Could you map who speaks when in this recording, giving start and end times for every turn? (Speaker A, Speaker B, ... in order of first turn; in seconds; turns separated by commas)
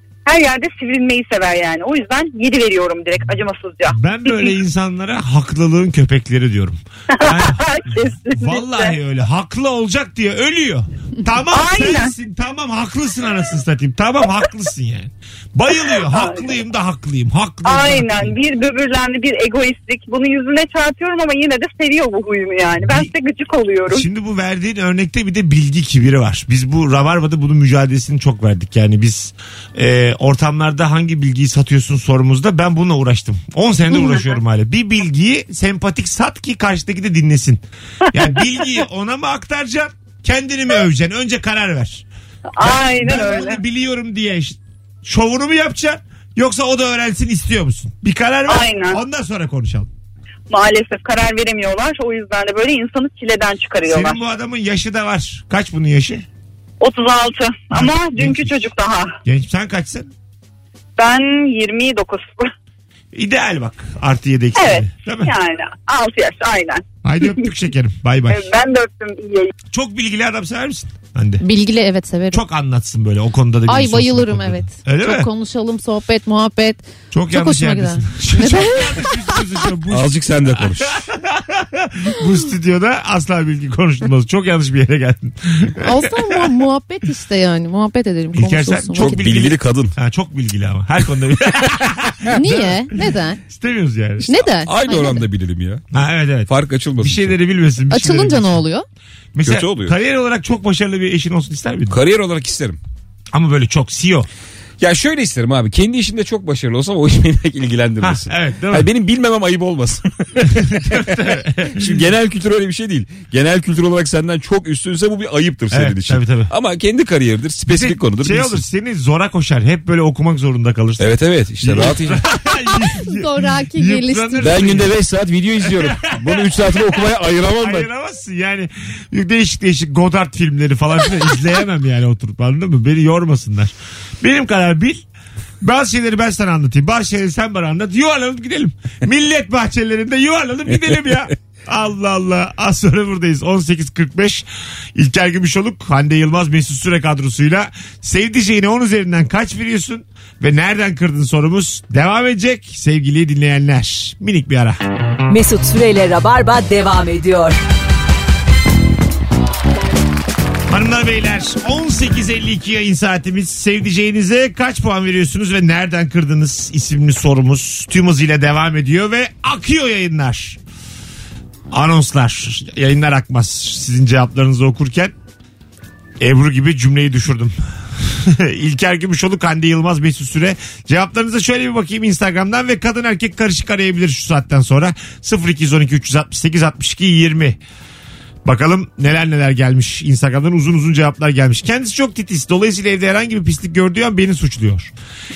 Speaker A: 0.3-4.5, Speaker B: 3.9-7.7, Speaker A: 7.1-9.0, Speaker B: 8.3-18.3, Speaker A: 11.5-12.1, Speaker A: 15.8-16.5, Speaker A: 17.6-24.1, Speaker B: 23.9-42.1, Speaker A: 33.9-34.4, Speaker A: 38.4-38.8, Speaker A: 42.5-43.6, Speaker B: 42.6-49.9, Speaker A: 48.5-49.0, Speaker A: 50.5-54.2, Speaker B: 53.9-56.3, Speaker A: 56.8-59.2, Speaker B: 57.7-58.5, Speaker B: 59.2-60.1, Speaker A: 61.0-62.5, Speaker B: 63.1-65.3, Speaker A: 64.6-67.5, Speaker B: 67.0-68.5, Speaker A: 68.3-69.5, Speaker B: 69.7-71.4, Speaker C: 71.4-72.4, Speaker B: 72.3-75.3, Speaker C: 73.7-79.3, Speaker B: 77.1-86.5, Speaker D: 79.9-81.1, Speaker C: 85.8-89.3, Speaker B: 88.3-94.3, Speaker D: 89.0-90.0, Speaker C: 92.3-93.4, Speaker D: 94.2-97.3, Speaker C: 94.3-95.2, Speaker B: 95.9-98.6, Speaker C: 97.9-98.9, Speaker B: 99.3-102.0, Speaker D: 99.4-100.0, Speaker D: 101.9-102.8, Speaker B: 103.3-104.3, Speaker D: 104.8-111.2, Speaker B: 108.0-108.9, Speaker B: 110.4-112.0, Speaker D: 111.7-118.6, Speaker B: 115.7-116.5, Speaker B: 117.7-124.9, Speaker D: 121.0-122.2, Speaker C: 122.7-124.5, Speaker D: 124.4-127.9, Speaker B: 125.6-126.9, Speaker B: 127.6-135.1, Speaker B: 135.6-154.8, Speaker E: 155.3-157.6, Speaker B: 160.7-170.6, Speaker B: 171.7-175.1, Speaker B: 176.2-187.6, Speaker B: 188.4-194.9